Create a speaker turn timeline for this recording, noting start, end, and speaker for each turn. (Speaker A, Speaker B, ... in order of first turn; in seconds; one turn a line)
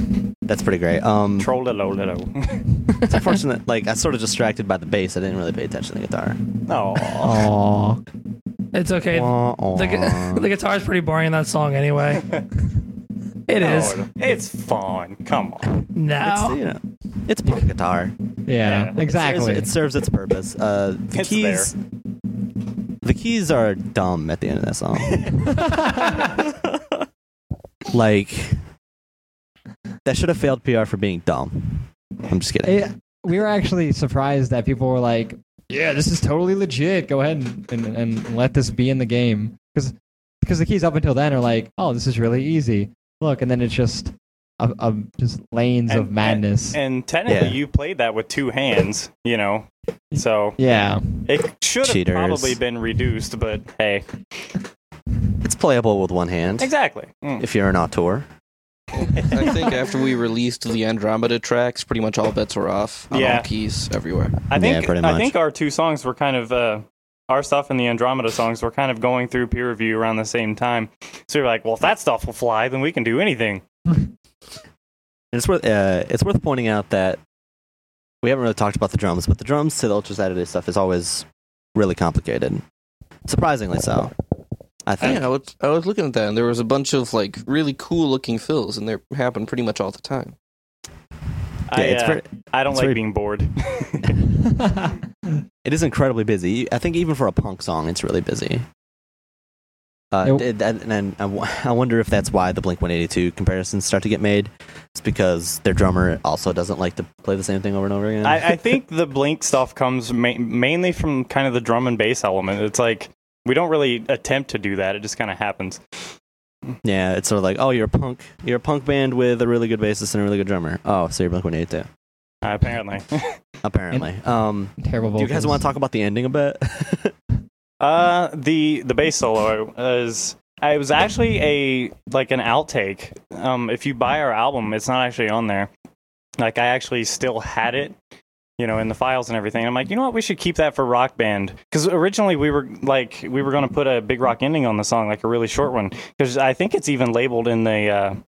Speaker A: 0.5-1.5
Speaker B: 1.4-3.0
Speaker A: 3.0-6.4
Speaker B: 6.7-7.5
Speaker C: 7.2-8.0
Speaker D: 8.7-12.3
Speaker A: 9.1-10.5
Speaker D: 13.5-14.1
Speaker B: 13.6-15.7
Speaker D: 15.9-16.6
Speaker A: 16.2-18.1
Speaker C: 18.5-19.7
Speaker B: 18.6-18.9
Speaker A: 18.9-21.8
Speaker B: 21.1-21.7
Speaker A: 23.0-25.5
Speaker C: 25.4-26.3
Speaker A: 26.4-26.7
Speaker A: 27.9-28.6
Speaker A: 30.1-32.8
Speaker C: 32.6-46.8
Speaker B: 45.9-50.6
Speaker A: 47.3-47.6
Speaker C: 50.1-51.2
Speaker B: 51.3-54.5
Speaker A: 51.8-52.6
Speaker A: 55.4-56.7
Speaker B: 56.6-57.4
Speaker A: 57.4-58.3
Speaker E: 58.9-64.4
Speaker B: 63.1-63.5
Speaker B: 64.5-73.6
Speaker A: 64.5-65.3
Speaker A: 75.3-77.2
Speaker A: 78.2-82.6
Speaker A: 83.3-84.1
Speaker A: 84.9-85.2
Speaker E: 85.0-90.3
Speaker B: 91.7-94.2
Speaker A: 91.7-93.0
Speaker C: 94.6-94.9
Speaker A: 95.6-98.6
Speaker A: 100.1-108.6
Speaker B: 108.2-115.8
Speaker A: 116.8-121.9
Speaker B: 122.4-123.4
Speaker A: 123.6-127.1
Speaker C: 124.8-125.6
Speaker B: 127.8-135.7
Speaker B: 136.4-137.9
Speaker B: 138.6-148.2